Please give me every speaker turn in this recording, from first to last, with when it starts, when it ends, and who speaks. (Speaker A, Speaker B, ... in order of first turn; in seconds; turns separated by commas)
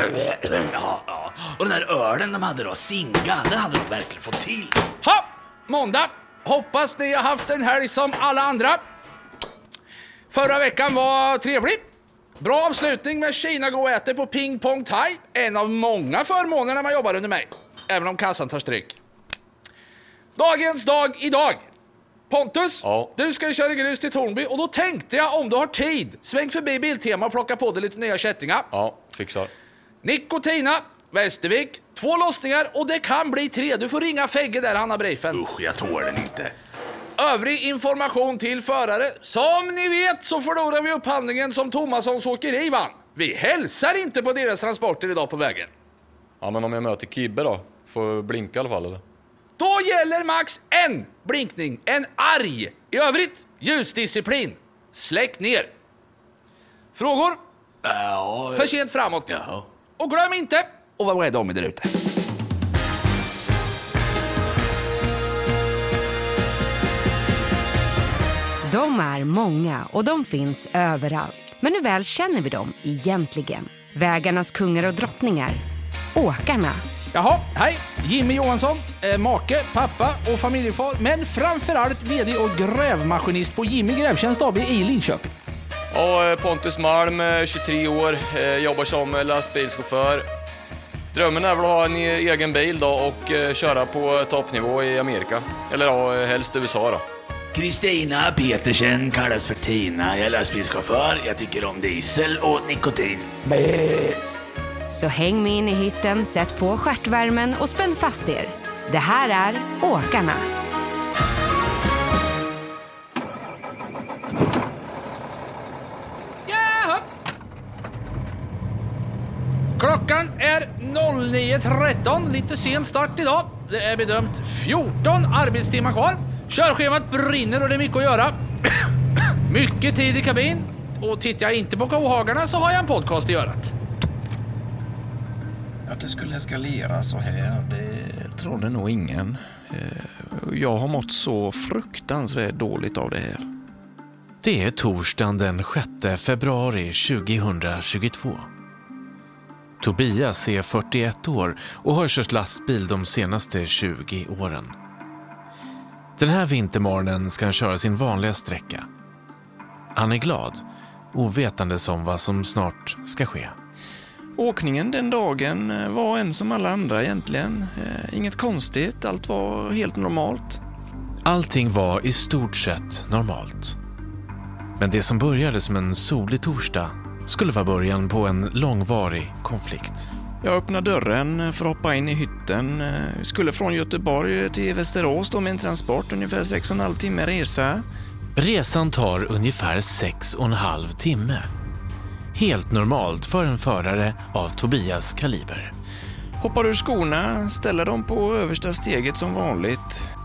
Speaker A: 0.2-4.8, Speaker B: 5.0-8.8, Speaker B: 10.3-11.8, Speaker B: 12.4-19.0, Speaker B: 20.4-21.6, Speaker B: 22.3-28.7, Speaker C: 22.8-23.1, Speaker C: 28.7-29.5, Speaker B: 30.0-35.4, Speaker A: 35.3-36.5, Speaker B: 37.2-45.7, Speaker C: 46.4-49.0, Speaker B: 49.6-55.7, Speaker B: 57.0-57.4, Speaker A: 57.9-58.6, Speaker B: 58.5-59.4, Speaker A: 59.3-59.6, Speaker B: 60.0-61.9, Speaker D: 68.7-75.6, Speaker D: 76.2-76.8, Speaker B: 77.1-85.3, Speaker C: 85.9-90.3, Speaker C: 91.1-97.0, Speaker A: 97.5-104.2, Speaker D: 104.9-110.4, Speaker B: 116.5-117.0, Speaker B: 119.8-128.4, Speaker B: 129.5-133.7, Speaker E: 135.9-143.5, Speaker F: 144.4-148.5, Speaker F: 149.8-154.8, Speaker F: 156.2-158.9, Speaker F: 160.0-163.6, Speaker E: 164.4-170.6, Speaker F: 171.2-173.8, Speaker F: 174.8-180.1, Speaker E: 180.4-187.8, Speaker F: 188.4-191.5, Speaker F: 192.3-195.7, Speaker E: 196.4-200.1